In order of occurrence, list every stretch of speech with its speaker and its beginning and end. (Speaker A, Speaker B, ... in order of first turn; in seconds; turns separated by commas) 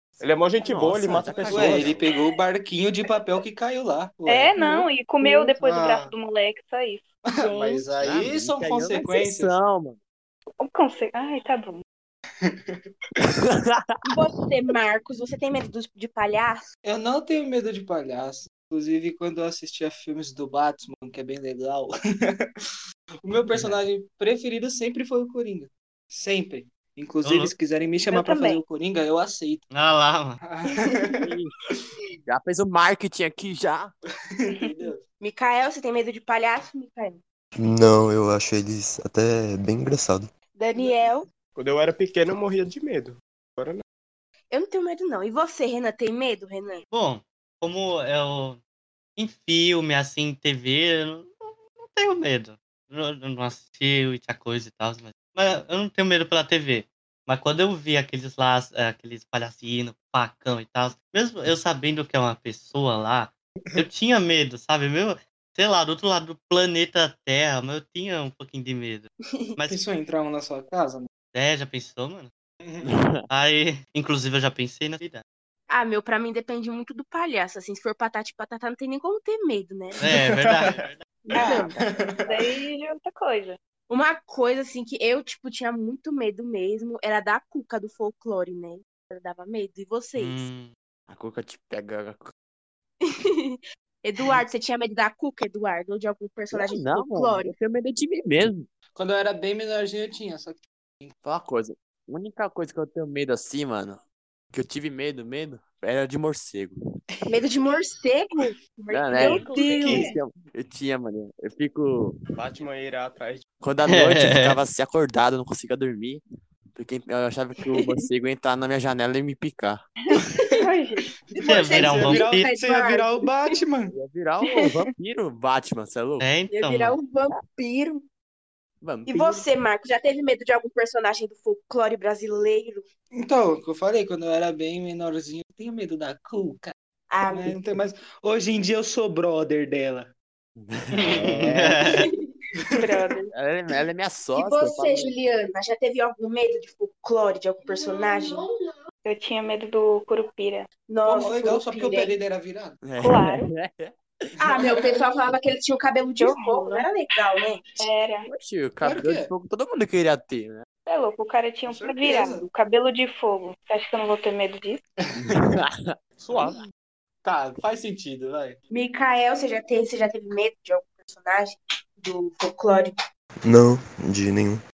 Speaker A: 0.2-1.9, Speaker B: 0.6-2.1, Speaker C: 1.1-6.1, Speaker D: 4.2-7.8, Speaker C: 7.2-9.6, Speaker B: 7.9-10.0, Speaker D: 10.6-11.8, Speaker C: 12.4-12.8, Speaker B: 13.2-13.9, Speaker E: 14.0-16.6, Speaker C: 16.8-22.4, Speaker C: 23.2-29.6, Speaker B: 23.5-23.8, Speaker F: 27.2-27.5, Speaker D: 28.1-28.6, Speaker F: 29.7-30.4, Speaker C: 30.4-31.8, Speaker B: 31.2-31.5, Speaker B: 32.3-33.9, Speaker C: 34.3-35.0, Speaker E: 35.2-37.2, Speaker G: 37.6-40.3, Speaker E: 40.5-41.3, Speaker C: 40.8-41.0, Speaker A: 41.5-43.8, Speaker E: 44.5-46.8, Speaker F: 46.9-48.6, Speaker F: 49.2-51.3, Speaker F: 51.8-69.8, Speaker C: 69.7-71.1, Speaker F: 71.3-72.3, Speaker C: 72.6-72.9, Speaker B: 72.8-73.2, Speaker F: 73.3-75.2, Speaker E: 75.7-80.1, Speaker F: 80.0-81.0, Speaker C: 80.0-80.8, Speaker D: 81.3-81.7, Speaker E: 81.3-81.7, Speaker C: 81.3-82.5, Speaker D: 82.2-83.6, Speaker E: 83.9-90.5, Speaker F: 90.2-90.7, Speaker B: 91.1-92.3, Speaker E: 93.0-97.5, Speaker B: 96.5-98.7, Speaker C: 98.9-101.1, Speaker B: 101.2-104.0, Speaker B: 104.5-106.8, Speaker E: 107.2-110.2, Speaker B: 108.9-112.1, Speaker A: 109.3-110.0, Speaker C: 109.7-110.0, Speaker A: 112.3-113.4, Speaker B: 113.6-116.2, Speaker F: 113.8-114.6, Speaker B: 116.8-119.8, Speaker E: 117.7-118.0, Speaker D: 120.1-121.9, Speaker C: 121.3-123.9, Speaker E: 121.3-123.5, Speaker F: 121.5-122.5, Speaker B: 123.9-126.3, Speaker D: 124.4-124.8, Speaker F: 126.2-127.0, Speaker E: 126.5-128.1, Speaker B: 128.8-129.4, Speaker E: 129.1-132.8, Speaker C: 133.1-136.7, Speaker E: 137.1-137.6, Speaker C: 137.3-140.1, Speaker B: 140.6-142.0, Speaker F: 141.0-142.0, Speaker E: 141.9-142.3, Speaker D: 142.8-143.3, Speaker B: 143.3-145.1, Speaker E: 144.3-148.5, Speaker D: 149.0-150.7, Speaker E: 150.9-152.2, Speaker C: 151.0-152.8, Speaker B: 152.8-154.3, Speaker D: 153.0-153.5, Speaker E: 154.4-157.8, Speaker D: 156.2-156.9, Speaker D: 157.8-158.3, Speaker B: 158.3-160.6, Speaker C: 158.8-159.3, Speaker D: 160.8-164.8, Speaker C: 161.7-162.4, Speaker C: 165.1-165.4, Speaker B: 165.2-165.9, Speaker A: 166.2-166.6, Speaker C: 166.3-166.5, Speaker C: 167.2-168.6, Speaker E: 168.7-172.9, Speaker G: 173.4-174.6